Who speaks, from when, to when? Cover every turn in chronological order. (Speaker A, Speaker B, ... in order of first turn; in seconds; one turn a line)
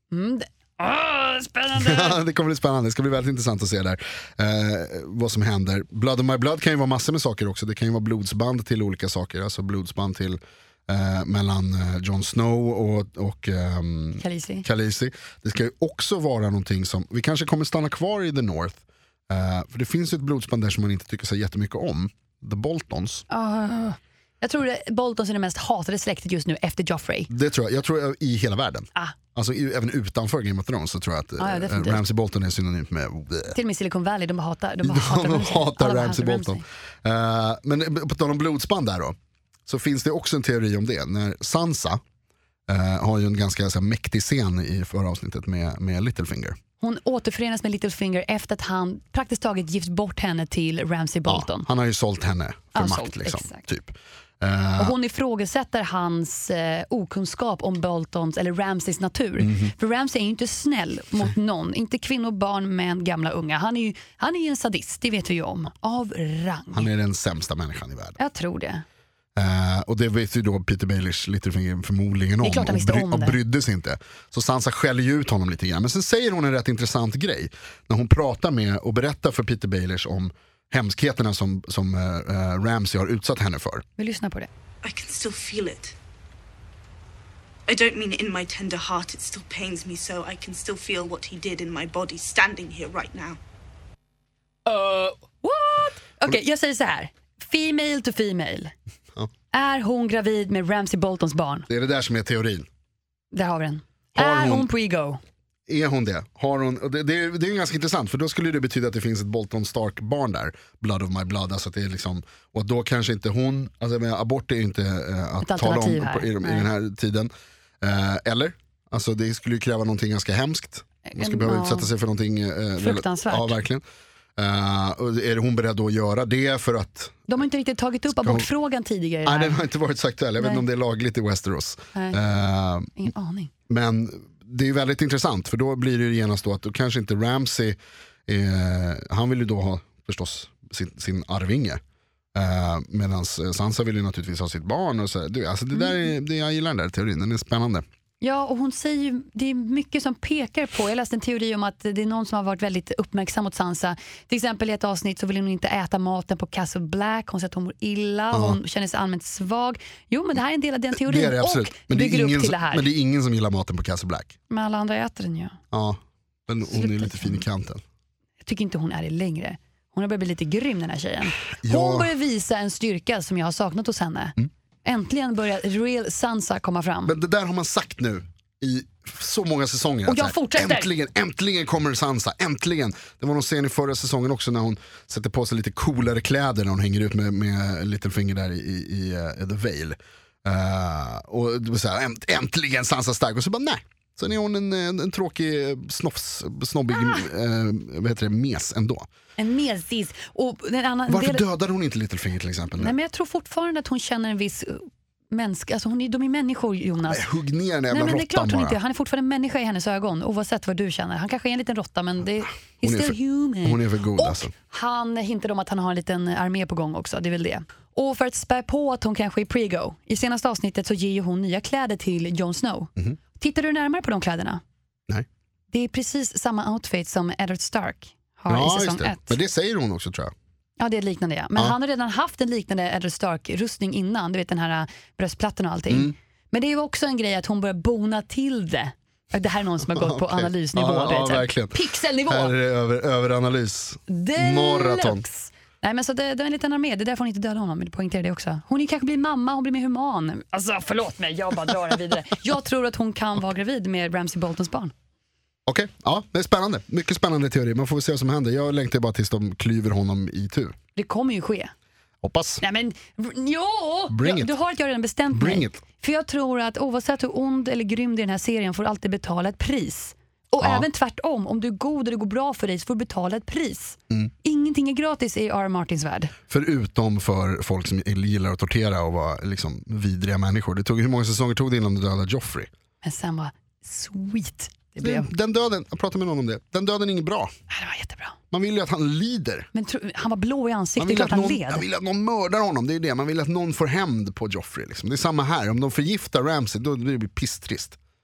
Speaker A: 0.1-2.2
Speaker B: 1.8-23.2
Speaker A: 14.2-14.7
Speaker A: 23.3-27.3
Speaker B: 27.3-33.6
Speaker A: 31.4-32.0
Speaker A: 33.5-36.6
Speaker B: 34.8-39.2
Speaker B: 39.7-42.0
Speaker B: 42.7-46.6
Speaker A: 46.8-51.7
Speaker B: 51.3-55.0
Speaker A: 52.8-53.6
Speaker A: 54.8-66.9
Speaker B: 59.4-59.7
Speaker B: 66.7-68.2
Speaker A: 68.2-68.8
Speaker B: 69.4-83.8
Speaker A: 72.4-73.4
Speaker A: 84.0-84.5
Speaker C: 84.8-86.0
Speaker C: 87.7-93.4
Speaker A: 94.7-98.7
Speaker A: 99.5-101.7
Speaker B: 101.7-102.7
Speaker A: 103.3-105.2
Speaker B: 104.2-104.7
Speaker B: 105.7-123.8
Speaker A: 115.4-116.7
Speaker A: 121.0-121.9
Speaker A: 122.8-123.6
Speaker B: 124.4-127.3
Speaker A: 127.3-129.6
Speaker B: 128.1-128.5
Speaker B: 129.2-133.0
Speaker A: 130.4-130.7
Speaker A: 131.9-132.2
Speaker A: 133.0-133.5
Speaker B: 133.7-141.8
Speaker B: 142.3-147.8
Speaker A: 148.2-162.9
Speaker B: 158.3-158.6
Speaker B: 160.9-164.3
Speaker A: 164.5-165.6
Speaker B: 165.7-167.8
Speaker A: 166.7-167.4
Speaker A: 168.4-177.1
Speaker B: 171.6-172.1
Speaker B: 177.1-199.1
Speaker A: 180.1-180.9
Speaker A: 196.9-197.2
Speaker A: 199.4-201.4
Speaker B: 201.1-202.9
Speaker A: 202.8-207.3
Speaker B: 207.0-208.8
Speaker A: 207.9-224.6
Speaker B: 212.8-214.5
Speaker A: 225.7-229.4
Speaker B: 228.5-230.3
Speaker A: 230.8-242.6
Speaker B: 239.9-245.2
Speaker A: 244.1-254.9
Speaker B: 255.7-260.8
Speaker A: 261.0-261.7
Speaker B: 262.2-262.6
Speaker A: 262.6-276.3
Speaker B: 264.1-264.5
Speaker B: 265.3-265.8
Speaker B: 270.6-270.9
Speaker B: 276.5-282.7
Speaker A: 283.0-285.3
Speaker B: 285.0-287.5
Speaker A: 287.7-288.4
Speaker B: 288.5-289.7
Speaker A: 289.7-291.9
Speaker B: 291.0-298.0